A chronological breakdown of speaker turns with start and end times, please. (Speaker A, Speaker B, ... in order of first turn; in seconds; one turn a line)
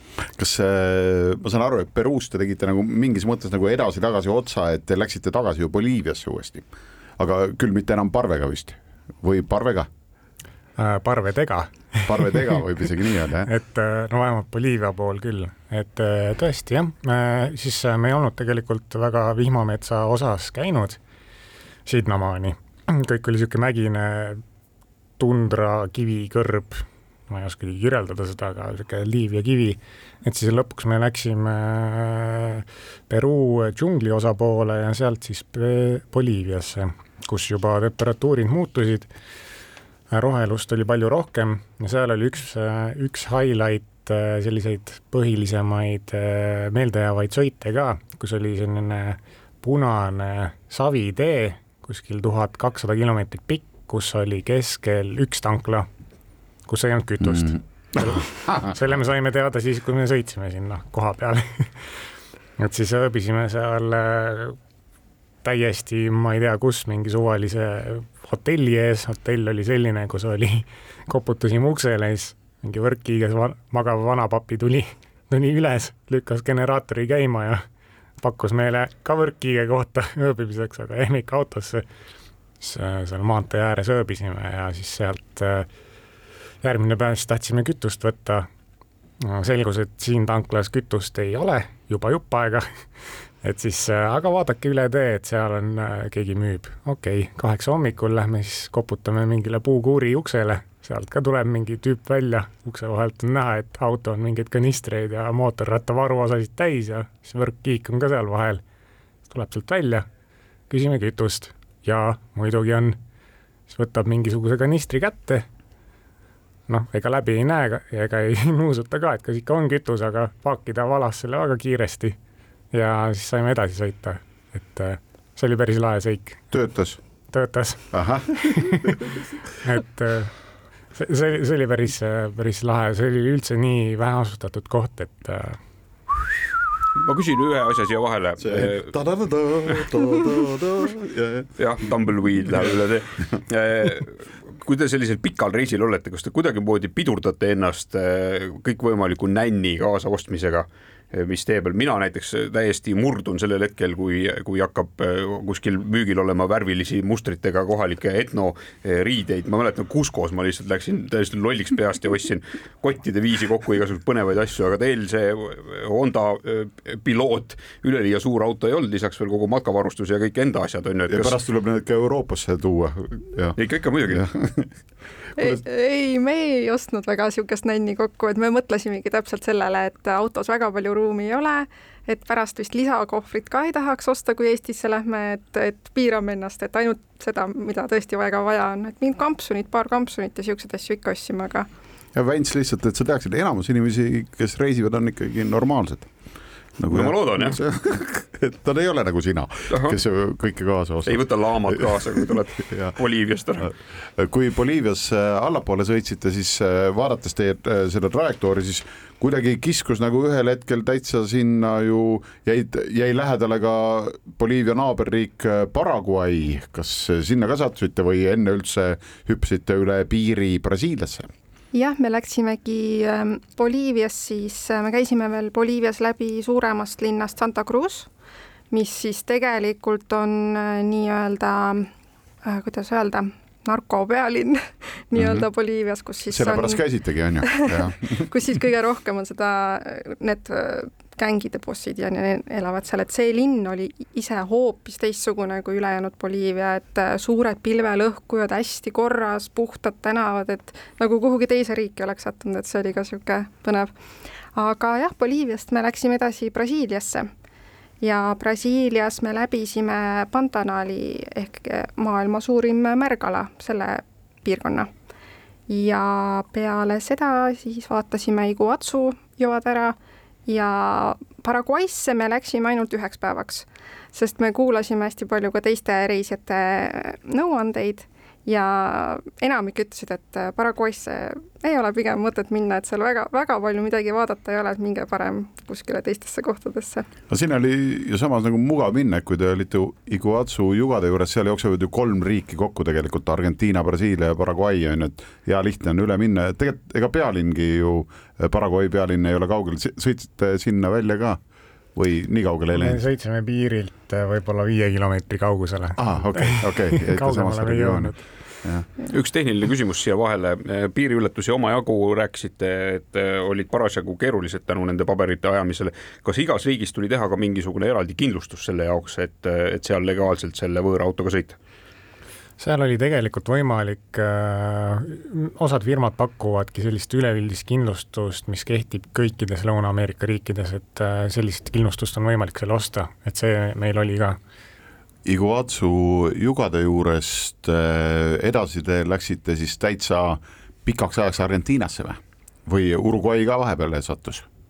Speaker A: 0.2-6.7
Speaker A: 7.2-9.9
Speaker B: 10.8-12.6
Speaker A: 12.1-13.5
Speaker B: 13.5-21.0
Speaker B: 21.9-24.4
Speaker B: 25.2-39.1
Speaker B: 40.1-55.9
Speaker B: 56.7-62.0
Speaker A: 57.2-58.8
Speaker B: 62.6-64.6
Speaker B: 65.4-77.7
Speaker B: 78.2-81.8
Speaker B: 82.6-85.7
Speaker B: 86.6-88.5
Speaker B: 89.2-92.9
Speaker B: 93.4-108.6
Speaker B: 109.3-110.1
Speaker B: 110.7-113.0
Speaker B: 113.7-115.5
Speaker B: 116.7-122.2
Speaker B: 122.7-126.5
Speaker A: 126.5-127.0
Speaker B: 127.3-129.0
Speaker A: 127.9-129.2
Speaker B: 129.6-130.3
Speaker B: 130.9-135.6
Speaker C: 137.0-138.9
Speaker A: 138.4-141.6
Speaker C: 141.6-171.4
Speaker A: 171.1-174.8
Speaker C: 173.6-174.2
Speaker D: 175.4-191.7
Speaker A: 192.2-196.1
Speaker A: 196.8-202.9
Speaker C: 196.9-197.6
Speaker C: 199.7-200.0
Speaker C: 201.1-203.7
Speaker A: 203.6-221.3
Speaker D: 221.7-228.1
Speaker D: 228.7-231.9
Speaker D: 232.4-236.8
Speaker A: 235.2-235.5
Speaker A: 236.3-238.3
Speaker D: 237.5-253.9
Speaker D: 254.6-257.3
Speaker D: 258.0-264.9
Speaker D: 265.7-270.0
Speaker D: 270.5-287.1
Speaker A: 287.3-301.4
Speaker A: 301.9-303.0
Speaker B: 302.7-308.3
Speaker A: 306.0-308.9
Speaker C: 309.1-321.6
Speaker B: 322.6-334.4
Speaker A: 335.2-344.5